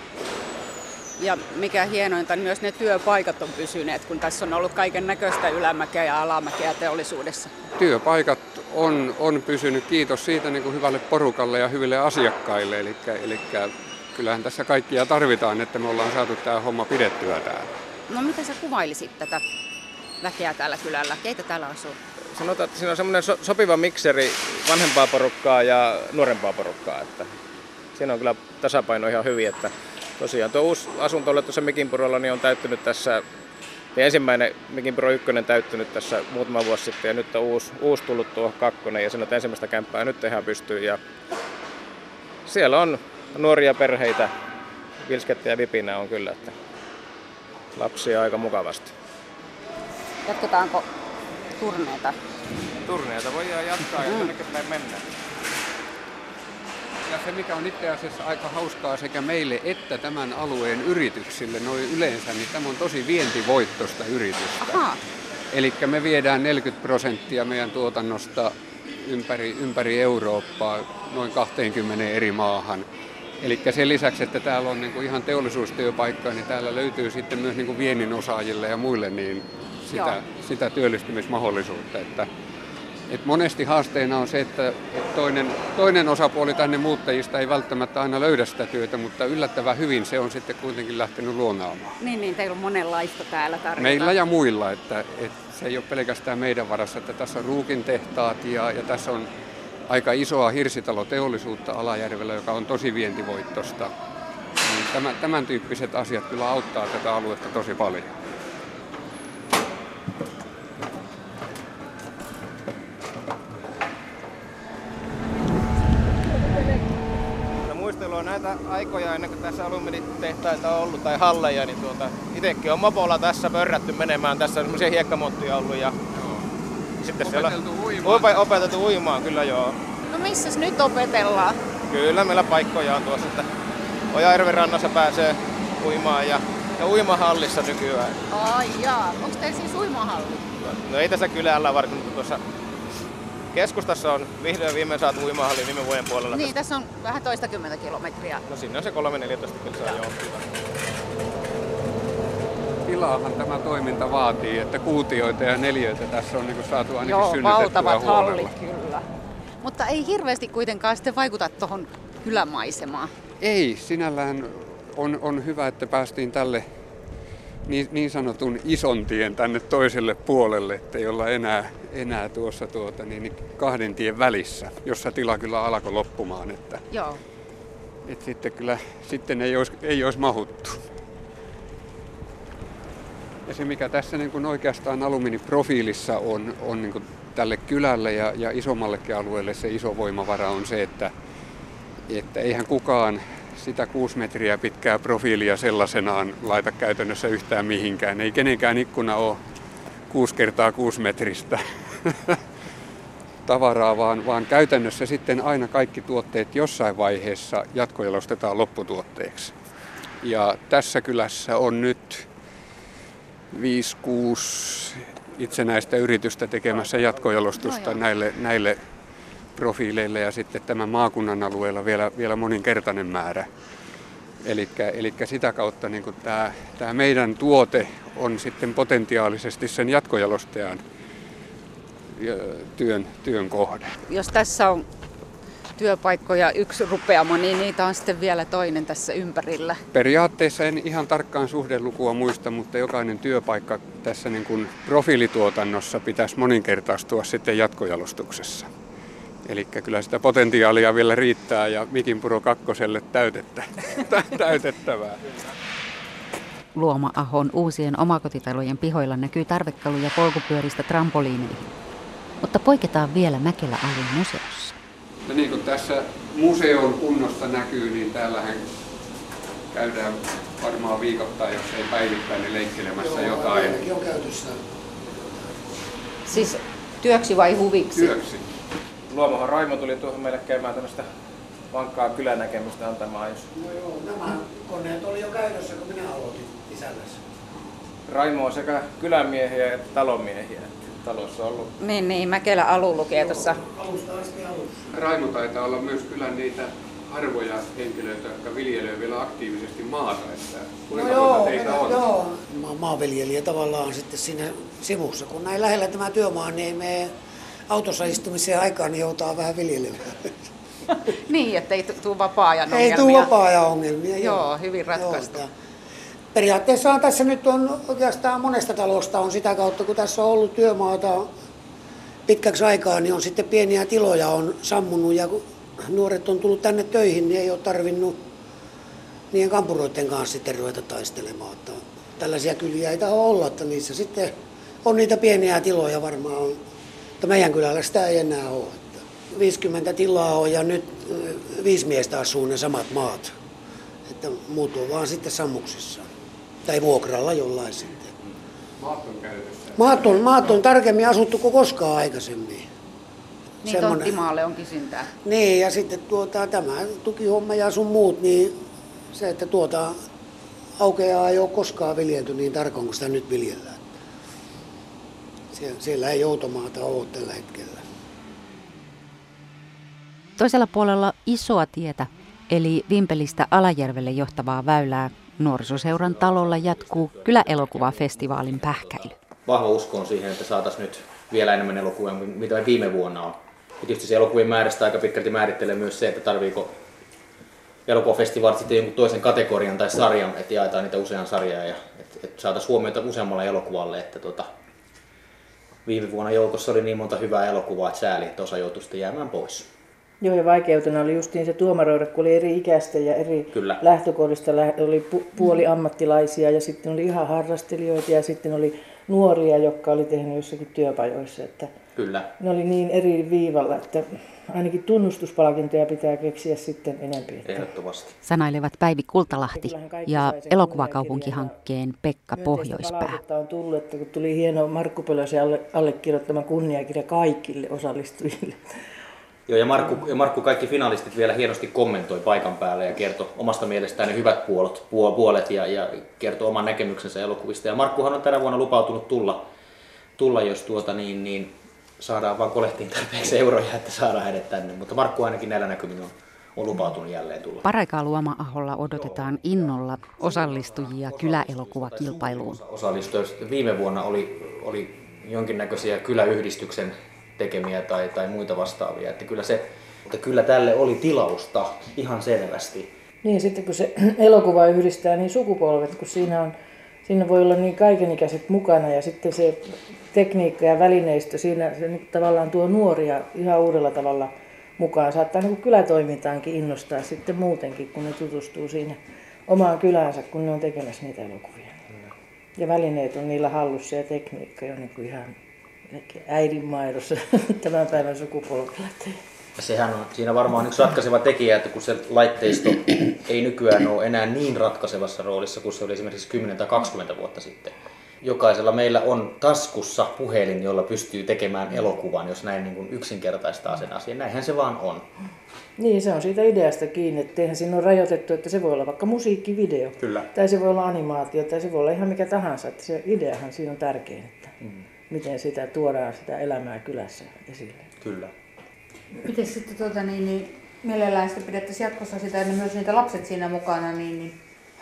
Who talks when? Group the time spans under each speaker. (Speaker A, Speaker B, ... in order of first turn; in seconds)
Speaker A: 1.2-7.5, 18.1-19.4, 20.2-22.0, 50.3-50.9, 51.6-52.2, 54.0-54.3, 64.6-65.0, 79.9-80.2, 92.0-94.2, 130.1-131.6, 138.3-140.5, 146.3-148.4, 157.0-159.1, 159.6-163.2, 176.9-177.2, 217.6-218.0, 234.1-234.8, 235.8-237.8, 238.8-239.8, 276.3-278.1, 291.9-293.6, 311.1-313.3, 314.1-315.4, 353.6-355.1
Speaker B: 7.8-17.7, 57.1-64.8, 65.5-72.9, 73.4-82.3, 83.1-92.0, 93.8-99.3, 99.9-103.9, 104.6-108.2, 126.1-126.5, 127.2-128.7, 152.9-158.5, 163.4-166.7, 167.7-176.8, 178.1-180.8, 183.5-191.1, 192.1-199.4, 200.1-202.4, 203.5-209.5, 210.2-212.3, 213.5-218.8, 219.6-223.5, 224.4-230.8, 232.2-234.0, 239.9-248.7, 249.4-255.3, 265.3-268.7, 269.7-273.8, 277.9-278.4, 294.9-302.0, 348.8-350.6
Speaker C: 22.3-27.3, 27.9-33.2, 34.0-41.0, 42.5-44.3, 45.0-46.5, 47.7-48.9, 52.9-55.0, 117.7-126.0, 127.0-129.8, 131.9-133.5, 134.1-138.2, 140.6-142.4, 143.5-146.5, 148.5-150.4, 279.1-281.1, 281.7-283.5, 288.1-291.7
Speaker D: 237.8-238.8, 256.7-261.7, 262.4-264.8, 370.4-379.1, 418.2-423.2, 447.6-452.6
Speaker E: 273.0-275.5, 283.5-287.2, 293.2-294.9, 300.9-307.1, 307.7-310.4, 312.7-315.5, 316.3-321.3, 322.3-328.2, 329.3-336.6, 337.2-343.3, 344.1-346.1, 346.6-348.1, 349.8-352.7, 353.6-354.2, 355.2-358.6, 359.1-360.0, 360.8-363.9, 365.5-367.8
Speaker F: 375.7-386.8, 387.9-394.5, 395.9-399.7, 403.5-403.8, 411.9-412.3, 417.4-418.1, 429.5-439.4, 440.2-447.7, 449.0-449.6, 450.2-462.9, 489.6-505.1, 510.0-510.3, 518.0-518.3
Speaker G: 400.2-411.7, 412.4-417.6, 419.5-421.6, 422.3-428.7, 463.2-466.5, 467.1-481.9, 482.6-489.2, 505.8-514.5, 515.1-517.9
Speaker H: 519.2-524.4